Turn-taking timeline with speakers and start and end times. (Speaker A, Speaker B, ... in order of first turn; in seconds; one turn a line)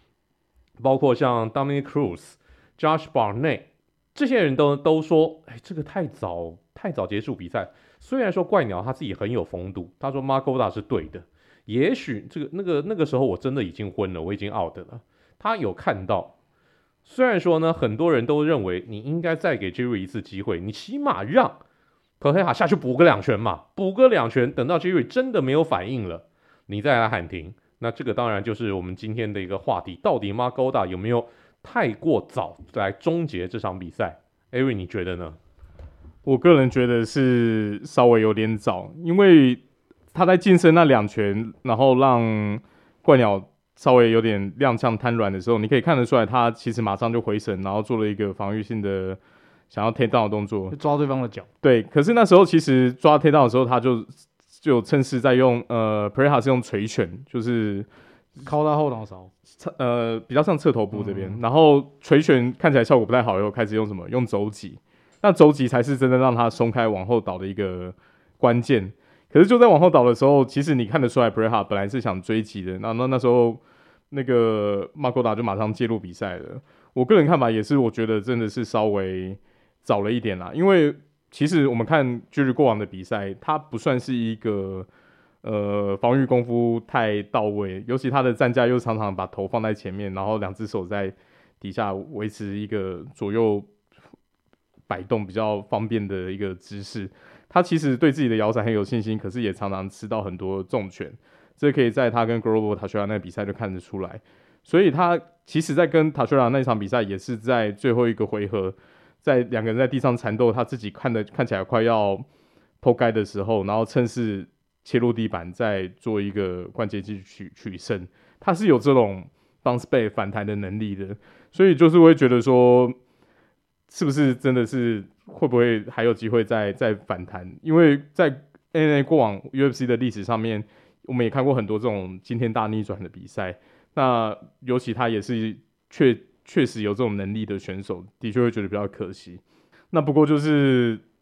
Speaker A: 0.8-16.3
Speaker A: 17.0-21.6
Speaker A: 22.2-35.4
Speaker B: 36.2-50.7
Speaker C: 50.7-51.5
Speaker B: 51.6-57.9
Speaker C: 58.4-59.3
Speaker B: 59.6-84.9
Speaker C: 60.9-61.4
Speaker B: 85.4-93.7
Speaker B: 94.9-112.2
Speaker B: 112.8-123.0
Speaker B: 123.9-139.4
Speaker B: 139.9-141.0